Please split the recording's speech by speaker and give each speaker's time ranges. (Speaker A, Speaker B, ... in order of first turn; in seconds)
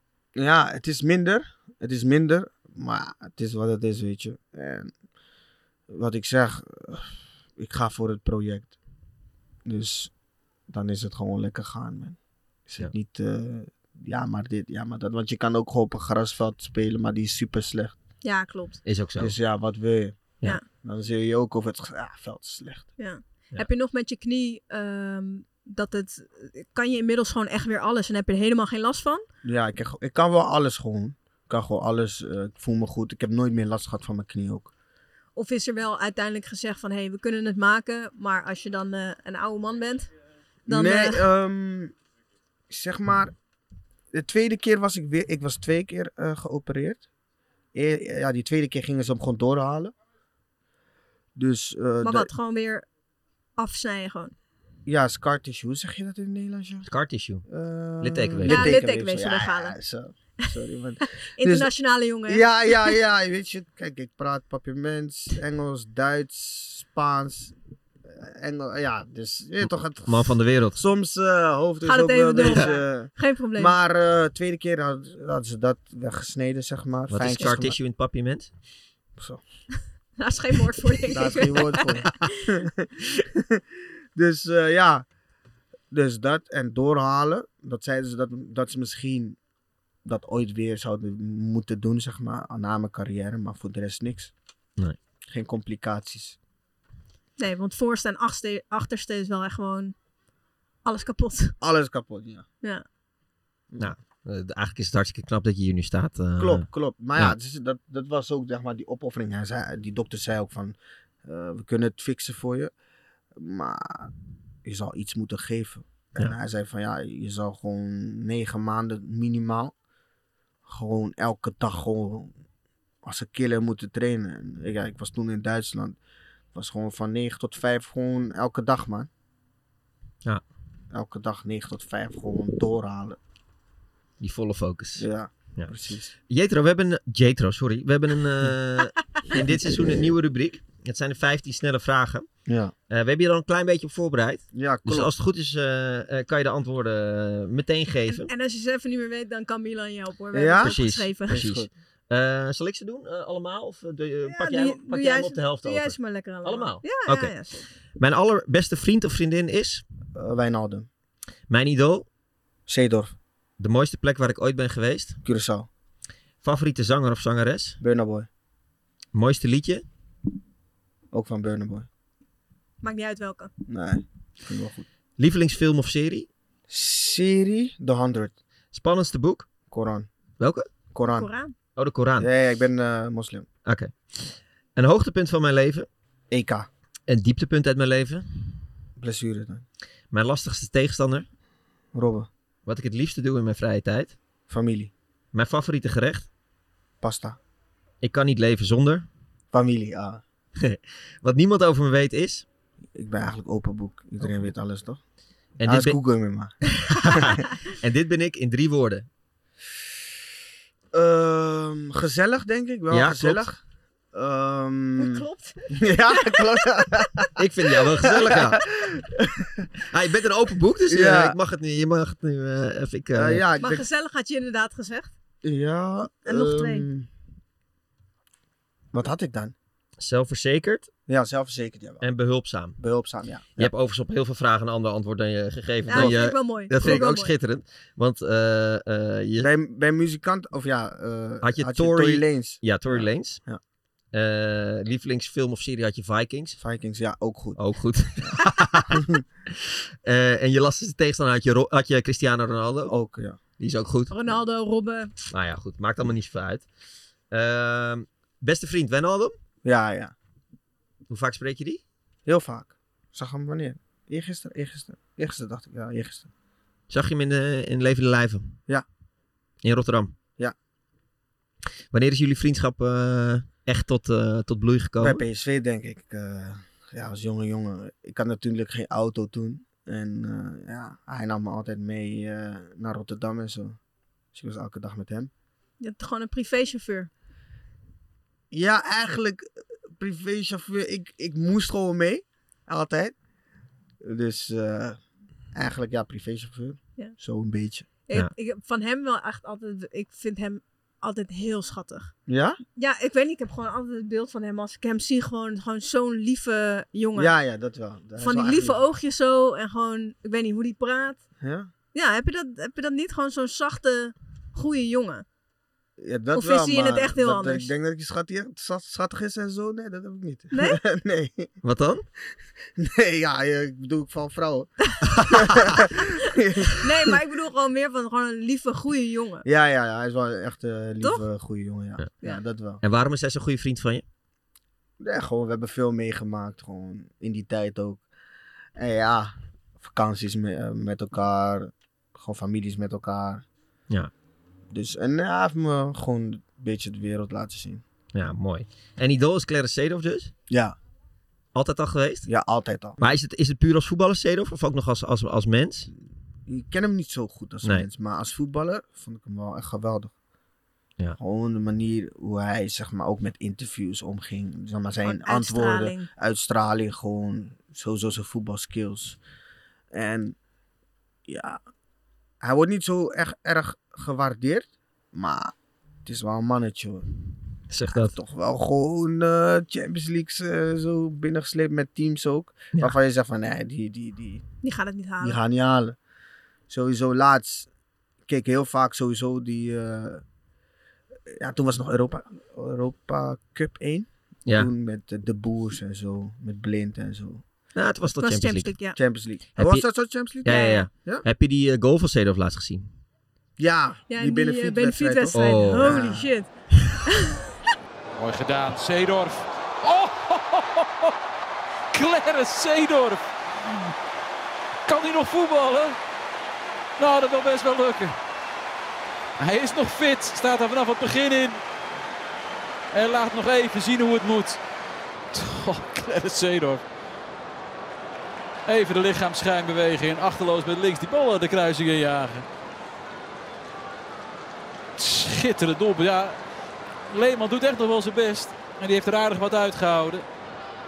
Speaker A: 0.3-4.9, 5.9-8.7, 9.6-10.1, 10.7-17.9, 19.2-22.9, 29.4-34.7, 40.7-41.9, 42.7-43.3, 44.1-47.0, 47.7-49.9, 51.4-52.3, 54.9-56.9, 57.5-61.7, 62.3-67.5, 68.0-77.8, 79.2-79.4, 81.1-83.6, 84.1-85.0, 85.9-89.4, 90.0-94.3, 95.3-96.4, 101.6-102.5, 106.4-112.7, 113.3-114.1, 114.6-119.7, 120.7-122.3, 123.0-126.0, 126.5-129.1, 130.9-133.2, 135.0-136.1, 139.3-139.8, 142.4-142.7, 144.5-145.1, 150.3-150.8, 151.3-151.7, 160.1-160.9, 162.7-163.1, 165.2-165.7, 167.8-168.3, 171.1-171.9, 173.7-174.9, 176.7-178.4, 179.7-180.1, 180.9-181.3, 182.2-183.5, 186.3-186.7, 189.0-189.6, 191.9-192.3, 194.5-194.9, 197.0-197.4, 199.5-200.2, 202.9-205.0, 205.6-207.4, 210.9-213.6, 214.1-219.7, 220.9-221.4, 223.1-223.8, 225.4-227.1, 228.9-229.5, 231.1-232.0, 232.8-233.7, 235.9-236.2, 236.8-237.1, 239.4-243.6, 246.6-247.6, 248.2-249.2, 252.8-253.4, 259.6-260.1, 262.2-266.3, 275.0-283.8, 284.3-285.3, 288.5-293.1, 294.0-295.0, 295.5-297.9, 302.3-302.6, 307.1-308.8, 311.4-311.7, 316.0-321.5, 322.8-327.1, 329.4-332.8, 335.0-338.1, 338.8-343.4, 344.7-347.8, 350.5-350.8, 352.3-353.0, 356.5-360.1, 361.2-369.2, 369.9-370.4, 371.3-371.6, 372.4-375.5, 376.0-377.1, 377.9-384.4, 385.2-386.0, 386.7-387.7, 388.3-390.2, 391.3-397.4, 398.9-401.2, 403.6-406.3
Speaker B: 18.2-18.8, 23.0-29.2, 35.4-40.1, 40.7-41.2, 52.0-52.8, 53.6-54.3, 58.5-59.8, 61.4-62.9, 71.8-73.7, 80.2-82.2, 97.4-99.9, 100.8-101.5, 148.1-151.4, 154.2-157.7, 172.8-173.5, 181.1-181.5, 215.0-216.4, 223.6-225.1, 226.2-226.8, 235.9-237.3, 254.1-255.1, 285.8-287.1, 298.1-302.1, 302.8-307.3, 308.2-311.2, 311.9-315.2, 316.3-317.7, 320.5-320.8, 326.7-329.4, 365.0-366.1, 384.6-385.4, 398.2-399.0, 400.4-400.8, 404.1-406.5, 407.1-407.4
Speaker C: 18.8-19.3, 56.8-57.5, 58.0-58.7, 70.0-70.8, 77.1-78.5, 103.8-107.4, 134.2-135.7, 136.3-142.3, 142.9-148.3, 150.6-157.3, 158.0-159.8, 161.5-162.1, 163.6-165.2, 166.4-167.8, 169.1-169.8, 175.2-176.3, 178.7-179.5, 180.4-180.7, 181.8-182.3, 183.6-185.9, 187.1-188.2, 190.1-191.3, 192.7-194.2, 195.3-196.3, 198.0-199.1, 200.6-202.4, 205.6-206.0, 206.9-209.1, 212.9-213.4, 217.4-218.6, 219.9-223.4, 230.0-230.9, 232.0-232.8, 233.6-239.5, 241.4-243.4, 244.1-246.6, 247.6-252.9, 253.6-254.1, 255.3-256.6, 257.3-259.4, 261.1-261.8, 266.9-268.6, 269.6-270.1, 271.9-275.2, 321.6-322.0, 325.1-325.7, 332.8-334.0, 348.1-350.3, 351.5-352.3, 353.0-355.9, 377.7-378.1, 397.7-398.7, 399.6-399.9, 400.4-402.9, 405.3-405.9
Speaker D: 408.1-411.1, 411.9-413.9, 414.9-416.0, 417.0-418.1, 419.4-421.6, 422.9-424.6, 425.3-426.8, 428.6-432.4, 434.9-436.4, 437.1-440.2